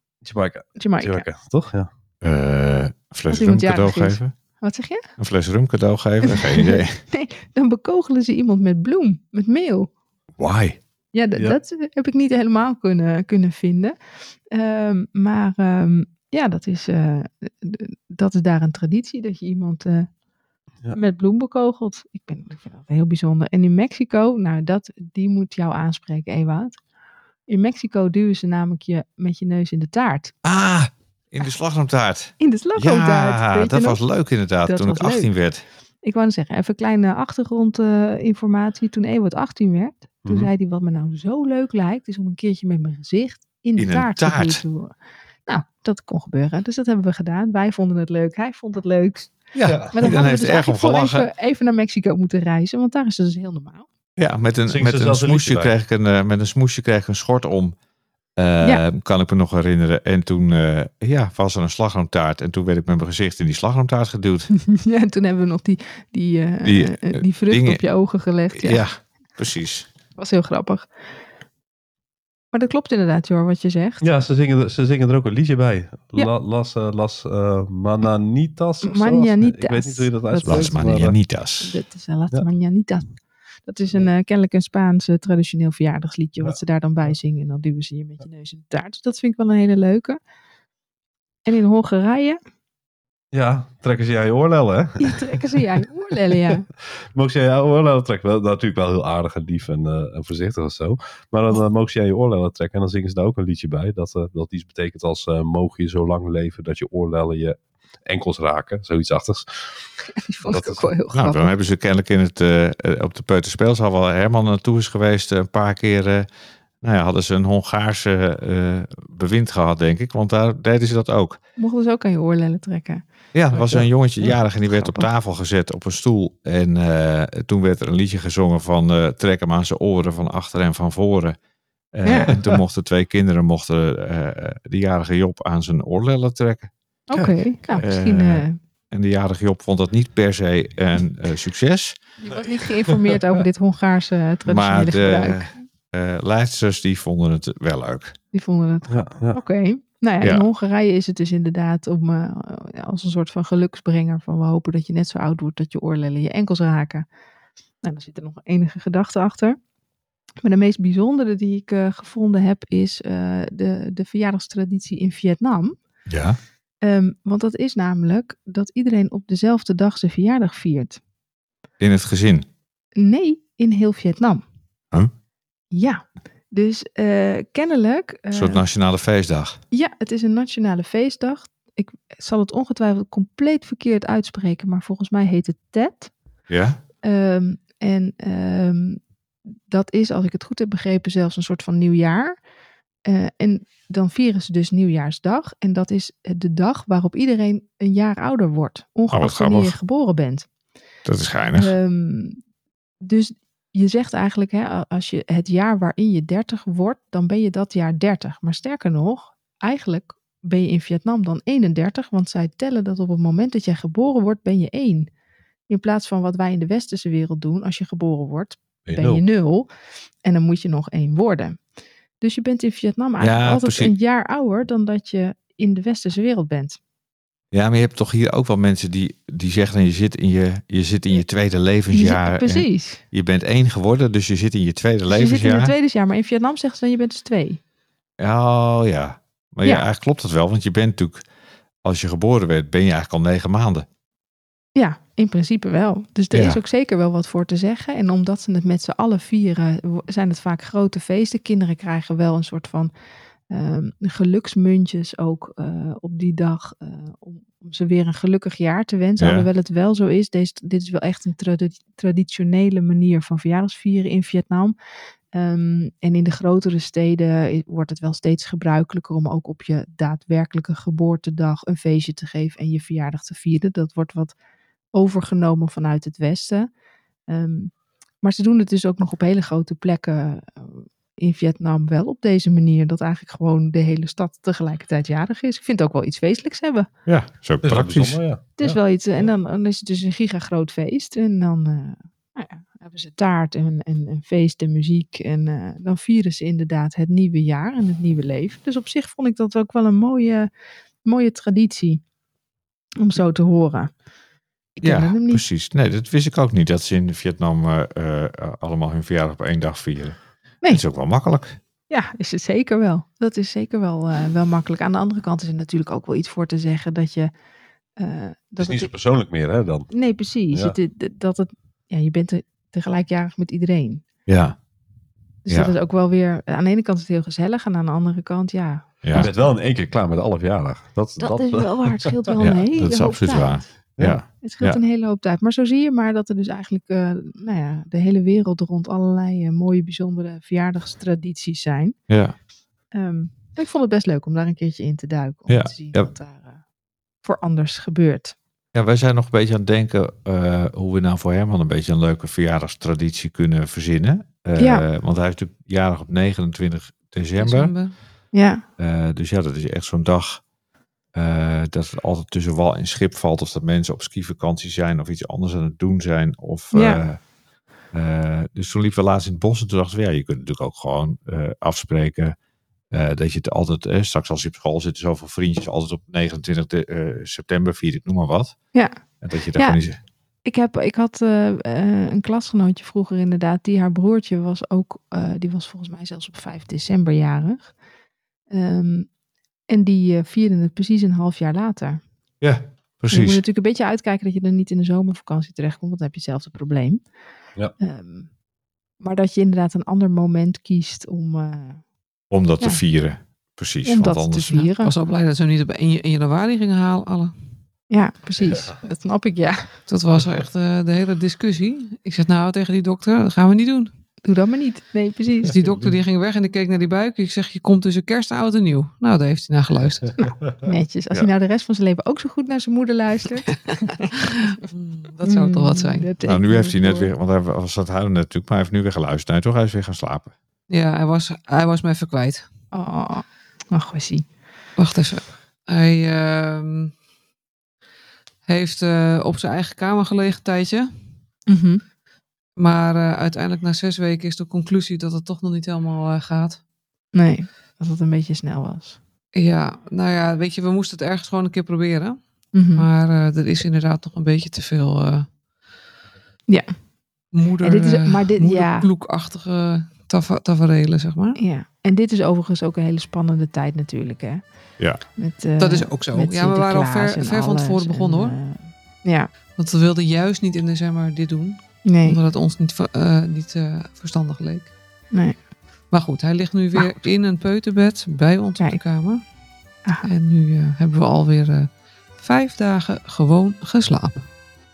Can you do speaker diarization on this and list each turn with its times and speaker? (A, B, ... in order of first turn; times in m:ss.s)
0:00.2-0:01.9 A
0:00.8-0:01.2 B
0:02.2-0:04.3 C
0:03.3-0:05.1 B
0:05.2-0:07.0 C
0:06.3-0:09.9 B
0:10.4-0:10.8 A
0:11.1-0:14.0 B
0:14.5-0:20.1 B
0:20.9-0:26.8 B
0:27.5-0:30.3 B
0:30.4-0:35.6 C
0:32.4-0:34.0 B
0:34.6-0:35.3 B
0:36.0-0:44.9 B
0:40.2-0:40.5 A
0:43.8-0:44.6 C
0:45.4-0:49.4 B
0:49.5-0:51.3 C
0:49.6-0:50.1 A
0:49.9-0:53.8 B
0:54.2-0:57.8 C
0:54.7-0:55.7 A
0:58.4-1:04.5 C
1:04.5-1:08.8 B
1:06.6-1:07.8 C
1:08.5-1:09.9 C
1:10.2-1:10.9 B
1:12.5-1:14.0 B
1:14.0-1:21.2 A
1:18.8-1:20.8 B
1:20.4-1:21.8 C
1:21.6-1:30.2 B
1:31.4-1:32.4 B
1:33.3-1:35.6 A
1:35.0-1:36.7 B
1:36.3-1:49.8 A
1:50.2-1:51.5 B
1:50.4-1:50.9 A
1:51.1-1:56.3 C
1:56.8-2:01.4 C
2:01.6-2:05.1 B
2:03.3-2:11.4 C
2:11.9-2:16.7 C
2:12.0-2:12.3 B
2:12.1-2:12.4 A
2:17.1-2:18.6 B
2:17.7-2:22.0 C
2:22.2-2:25.5 B
2:22.8-2:23.1 A
2:24.4-2:28.2 C
2:28.3-2:37.0 B
2:28.9-2:29.4 A
2:30.2-2:30.5 C
2:37.8-2:39.6 B
2:40.4-2:45.8 B
2:46.1-2:46.4 C
2:46.8-2:51.0 B
2:51.8-2:52.4 C
2:53.0-2:54.4 B
2:55.7-2:58.6 B
2:58.3-2:59.6 C
2:59.7-3:06.1 B
3:06.5-3:06.8 C
3:07.0-3:09.0 B
3:09.7-3:12.4 B
3:13.0-3:20.5 B
3:19.1-3:19.8 C
3:21.0-3:21.7 C
3:21.6-3:22.4 B
3:23.0-3:35.1 B
3:35.7-3:39.7 B
3:38.9-3:39.2 A
3:40.2-3:41.6 B
3:42.2-3:46.8 B
3:43.2-3:43.9 C
3:47.5-3:55.7 C
3:51.9-3:53.0 B
3:55.1-3:57.6 B
3:58.2-4:01.2 C
4:01.8-4:03.8 C
4:04.7-4:12.9 B
4:06.3-4:06.6 C
4:13.5-4:24.7 B
4:19.2-4:19.5 C
4:25.3-4:34.3 B
4:34.9-4:36.7 B
4:37.3-4:46.9 B
4:47.0-4:48.2 C
4:47.6-4:49.3 A
4:48.6-5:00.5 B
5:01.0-5:02.0 B
5:03.0-5:03.9 B
5:04.8-5:05.4 B
5:04.8-5:11.6 C
5:11.9-5:17.3 B
5:18.0-5:18.9 B
5:18.6-5:19.9 A
5:19.9-5:24.0 B
5:20.5-5:20.8 A
5:24.3-5:24.6 C
5:25.4-5:29.3 B
5:25.5-5:25.7 C
5:29.0-5:29.3 C
5:29.1-5:32.4 A
5:31.2-5:33.6 B
5:32.4-5:34.8 C
5:34.0-5:34.2 A
5:34.3-5:42.0 B
5:42.1-5:42.4 C
5:42.9-5:46.6 B
5:45.5-5:46.1 C
5:47.2-5:48.3 B
5:48.7-5:57.7 C
5:54.6-5:54.8 B
5:57.4-5:57.9 D
5:58.3-5:58.6 B
5:58.8-6:00.4 C
6:01.1-6:07.2 C
6:06.7-6:07.0 B
6:07.9-6:12.3 C
6:12.9-6:18.6 C
6:19.2-6:20.0 C
6:20.4-6:27.7 B
6:28.5-6:29.1 B
6:29.7-6:32.0 B
6:32.4-6:33.4 C
6:33.1-6:37.0 B
6:37.8-6:38.3 B
6:39.0-6:41.8 B
6:42.3-6:44.7 C
6:43.8-6:44.9 B
6:44.8-6:47.3 D
6:47.9-6:49.7 B
6:49.9-6:53.9 D
6:54.2-6:55.5 B
6:55.5-7:00.2 D
6:55.6-6:55.9 A
7:00.2-7:04.6 B
7:04.2-7:06.1 D
7:05.2-7:07.1 B
7:06.2-7:10.3 C
7:10.7-7:12.4 D
7:12.7-7:14.2 B
7:14.8-7:16.9 D
7:18.5-7:20.9 D
7:21.5-7:21.8 B
7:22.6-7:26.6 D
7:27.1-7:29.0 B
7:29.3-7:35.3 D
7:32.5-7:32.9 B
7:37.3-7:41.4 D
7:37.6-7:38.9 B
7:41.4-7:44.4 B
7:45.2-7:49.3 B
7:45.6-7:48.4 D
7:49.6-7:54.7 D
7:51.8-7:52.2 B
7:55.9-7:59.2 D
7:56.7-7:57.0 B
8:00.0-8:04.2 D